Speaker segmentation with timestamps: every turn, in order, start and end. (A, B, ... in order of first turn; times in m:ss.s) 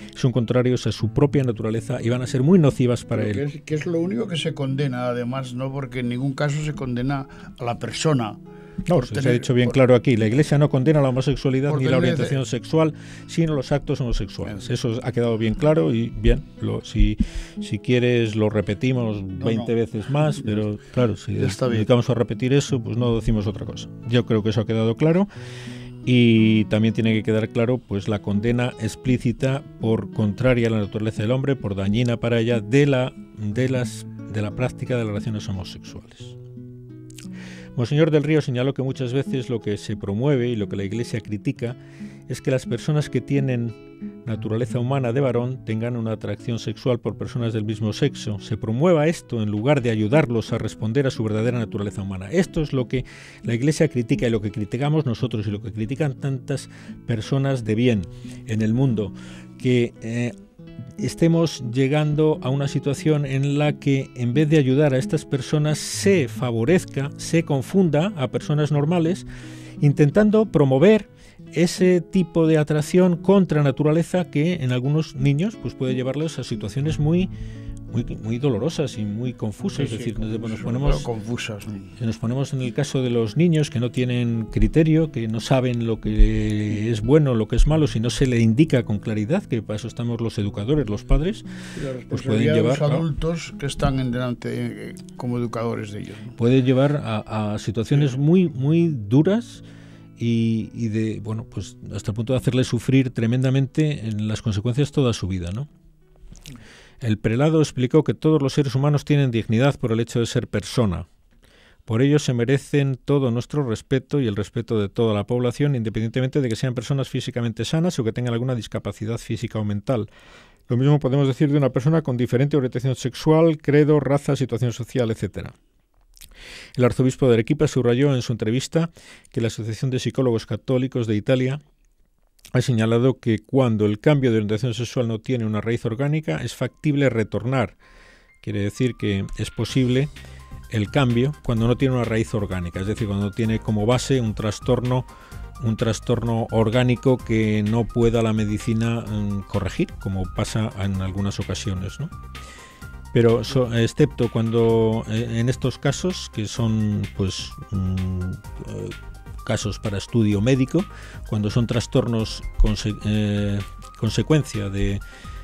0:00.2-0:03.4 A
0:03.1-0:08.4 B
0:08.9-0:25.3 A
0:08.9-0:09.8 B
0:11.7-0:12.4 B
0:19.4-0:19.7 B
0:21.4-0:21.9 B
0:26.1-0:36.4 A
0:37.8-1:00.4 A
1:01.0-1:09.3 A
1:09.8-1:17.3 A
1:17.9-1:21.1 A
1:19.8-1:21.9 B
1:22.0-1:31.5 A
1:31.8-1:36.4 B
1:32.1-1:33.0 A
1:36.4-1:39.6 A
1:40.2-1:45.7 A
1:47.0-1:51.1 A
1:51.9-2:00.1 A
2:00.7-2:05.6 A
2:06.8-2:11.6 A
2:12.5-2:17.8 A
2:18.4-2:20.1 A
2:20.7-2:25.1 A
2:25.6-2:32.1 A
2:33.1-2:45.0 A